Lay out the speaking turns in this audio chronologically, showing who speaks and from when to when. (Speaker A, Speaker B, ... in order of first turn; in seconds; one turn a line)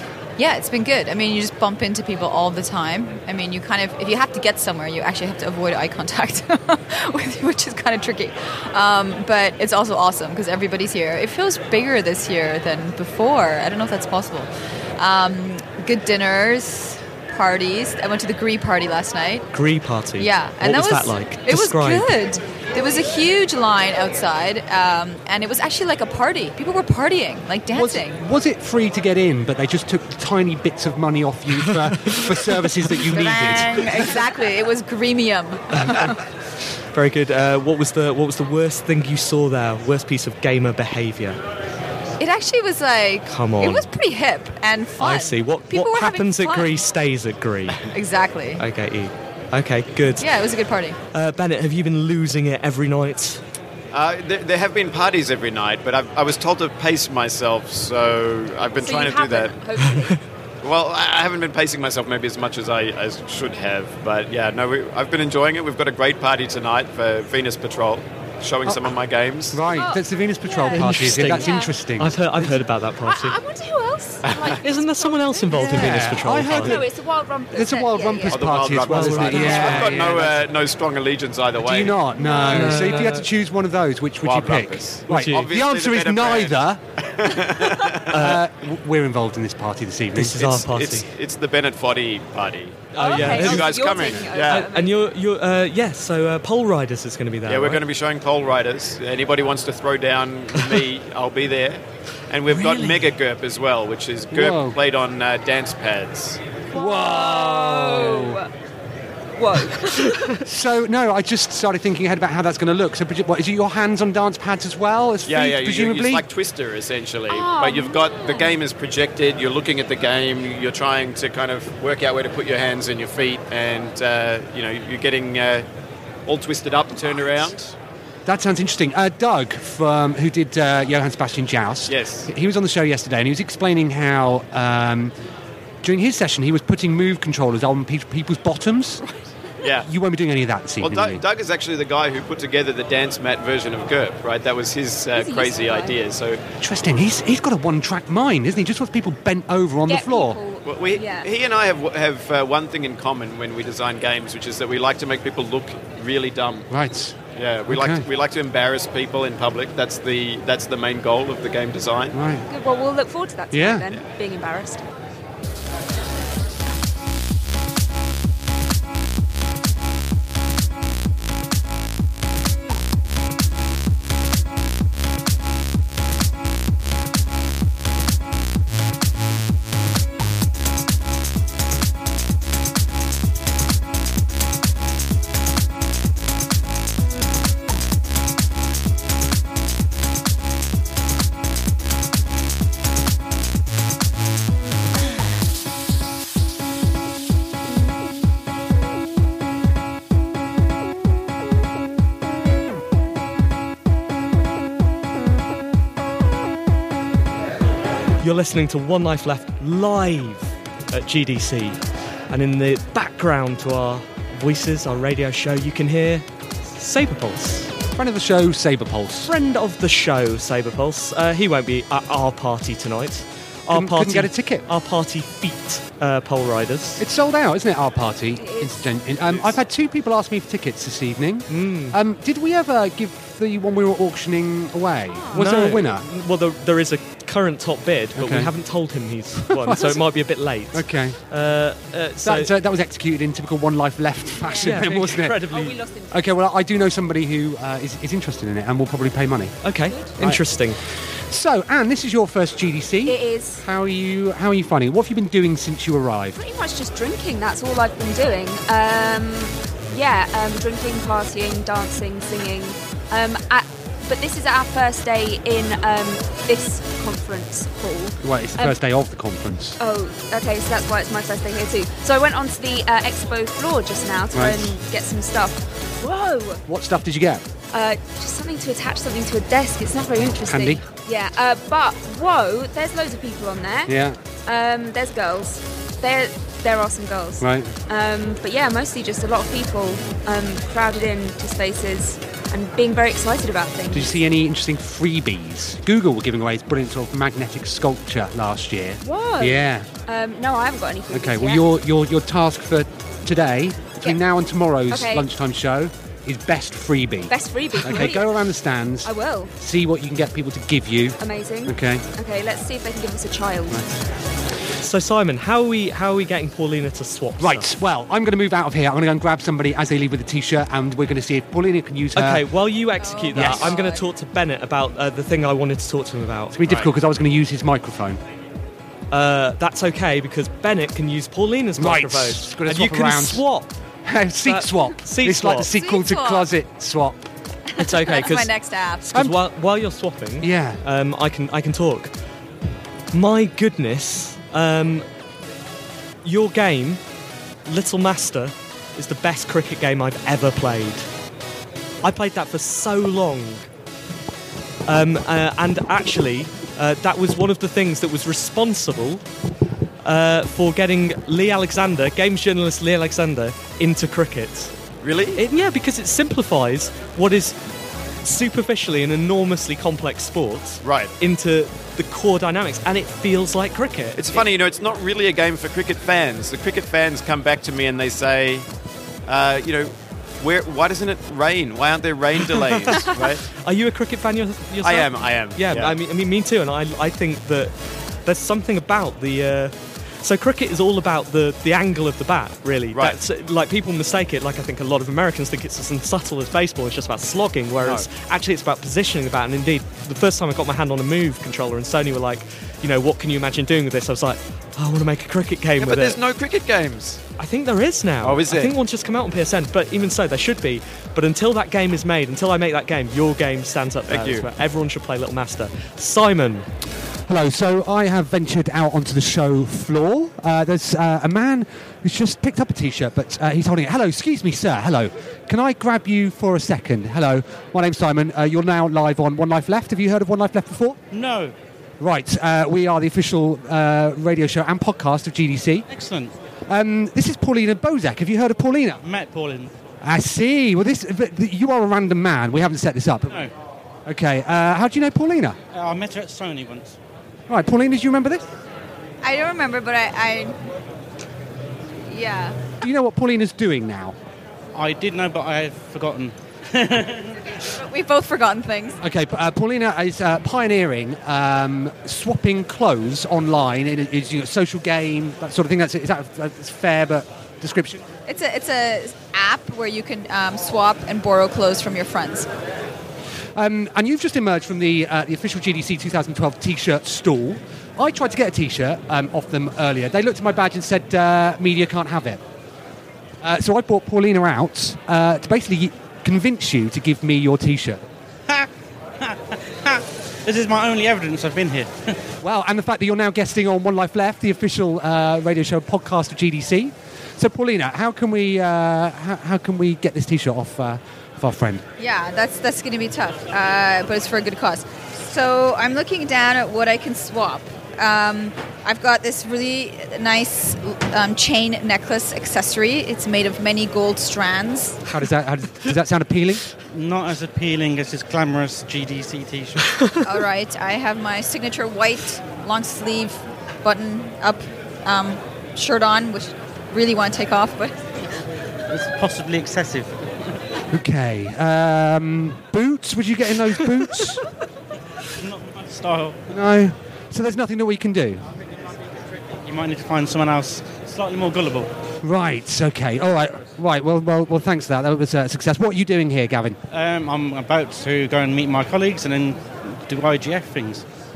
Speaker A: 0.4-19.5
Speaker B: 19.5-22.2
Speaker A: 20.2-28.2
Speaker C: 27.7-34.1
Speaker B: 31.7-32.3
Speaker A: 33.0-36.0
Speaker B: 36.9-41.4
Speaker A: 42.2-46.7
Speaker B: 43.3-43.9
Speaker B: 45.0-47.8
Speaker A: 47.8-48.6
Speaker B: 48.6-50.3
Speaker A: 50.2-51.0
Speaker B: 51.1-53.4
Speaker D: 53.9-59.6
Speaker E: 58.8-60.2
Speaker B: 59.8-60.1
Speaker D: 60.6-69.6
Speaker C: 68.6-68.9
Speaker C: 69.5-72.5
Speaker E: 69.6-71.8
Speaker B: 70.7-73.4
Speaker E: 73.0-78.7
Speaker C: 74.2-74.5
Speaker B: 74.6-76.8
Speaker C: 75.5-76.9
Speaker C: 77.5-80.5
Speaker D: 78.3-82.0
Speaker B: 78.8-79.9
Speaker E: 79.3-80.1
Speaker C: 81.6-86.8
Speaker E: 82.1-83.0
Speaker B: 82.4-83.2
Speaker D: 84.2-88.1
Speaker B: 85.1-85.5
Speaker B: 88.1-88.4
Speaker C: 88.1-90.6
Speaker B: 90.1-91.1
Speaker D: 90.5-94.7
Speaker B: 92.9-93.7
Speaker E: 93.0-95.0
Speaker B: 94.4-97.8
Speaker D: 97.5-106.4
Speaker B: 102.6-102.9
Speaker C: 104.3-104.8
Speaker E: 106.7-108.5
Speaker C: 106.7-108.4
Speaker E: 109.3-110.4
Speaker C: 110.4-116.2
Speaker D: 115.2-125.7
Speaker E: 117.3-118.6
Speaker D: 126.2-127.7
Speaker C: 128.2-135.1
Speaker D: 131.9-132.3
Speaker C: 135.8-139.0
Speaker D: 139.6-139.9
Speaker C: 139.8-141.2
Speaker D: 140.8-146.4
Speaker E: 145.1-146.0
Speaker C: 146.6-150.4
Speaker E: 149.9-151.3
Speaker D: 150.6-156.7
Speaker C: 156.7-157.2
Speaker D: 157.3-162.2
Speaker C: 157.7-158.0
Speaker C: 162.1-162.4
Speaker E: 162.5-164.8
Speaker C: 163.5-163.9
Speaker B: 208.2-211.8
Speaker B: 212.3-217.7
Speaker C: 217.9-219.3
Speaker B: 219.2-227.0
Speaker C: 223.7-224.7
Speaker C: 227.0-236.0
Speaker E: 228.3-229.0
Speaker B: 231.5-232.0
Speaker B: 235.3-242.5
Speaker C: 238.2-238.5
Speaker C: 239.5-240.0
Speaker C: 240.7-241.2
Speaker C: 242.2-245.5
Speaker E: 244.3-245.0
Speaker B: 244.5-245.8
Speaker E: 245.5-246.3
Speaker C: 246.1-249.6
Speaker B: 249.6-250.8
Speaker C: 251.3-256.4
Speaker E: 253.0-253.6
Speaker E: 256.3-268.8
Speaker C: 268.2-269.8
Speaker E: 269.8-276.6
Speaker C: 274.3-274.7
Speaker C: 276.7-277.4
Speaker E: 277.7-283.9
Speaker C: 280.3-280.8
Speaker C: 283.9-284.2
Speaker E: 284.4-294.2
Speaker C: 287.4-287.7
Speaker C: 293.9-299.9
Speaker E: 299.0-301.6
Speaker C: 301.1-312.0
Speaker E: 304.9-305.3
Speaker E: 307.3-308.4
Speaker E: 309.0-309.5
Speaker E: 311.2-313.8
Speaker C: 313.7-313.9
Speaker B: 314.8-317.7
Speaker C: 317.4-322.4
Speaker B: 322.1-326.6
Speaker A: 323.0-324.1
Speaker C: 323.3-323.7
Speaker C: 326.5-328.2
Speaker B: 329.1-333.7
Speaker C: 331.8-333.4
Speaker C: 334.0-337.3
Speaker B: 334.4-335.7
Speaker A: 335.8-336.5
Speaker B: 337.8-338.5
Speaker A: 337.8-339.1
Speaker B: 339.0-342.1
Speaker C: 340.4-340.8
Speaker B: 343.1-345.0
Speaker B: 346.2-347.0
Speaker B: 347.6-351.1
Speaker B: 352.0-353.6
Speaker B: 354.9-359.2
Speaker B: 360.0-364.7
Speaker D: 365.0-365.4
Speaker B: 365.4-367.6
Speaker B: 368.2-374.5
Speaker D: 370.8-371.1
Speaker D: 374.1-378.7
Speaker D: 379.3-383.4
Speaker B: 382.5-387.7
Speaker D: 384.8-385.9
Speaker B: 388.2-406.2
Speaker D: 392.9-393.2
Speaker D: 405.8-407.2
Speaker B: 407.4-416.6
Speaker D: 408.2-408.7
Speaker D: 414.1-414.5
Speaker C: 417.3-431.0
Speaker F: 431.1-431.5
Speaker C: 432.0-435.9
Speaker F: 435.9-436.3
Speaker C: 436.7-439.0
Speaker F: 439.0-439.7
Speaker C: 440.0-443.5
Speaker C: 444.1-445.6
Speaker F: 445.7-446.9
Speaker C: 447.5-448.4
Speaker A: 449.2-450.6
Speaker A: 452.1-452.6
Speaker C: 452.8-454.1
Speaker F: 454.7-457.4
Speaker A: 457.6-459.0
Speaker C: 459.0-468.0
Speaker A: 468.3-472.5
Speaker C: 473.6-482.4
Speaker C: 483.4-488.0
Speaker F: 489.2-492.2
Speaker C: 492.4-501.8
Speaker A: 502.0-515.0
Speaker C: 515.1-516.6
Speaker F: 516.9-519.9
Speaker A: 520.2-528.0
Speaker F: 528.9-530.2
Speaker C: 530.9-534.4
Speaker F: 535.4-536.4
Speaker C: 536.5-538.5
Speaker F: 539.6-541.9
Speaker C: 542.2-546.8
Speaker F: 546.9-551.0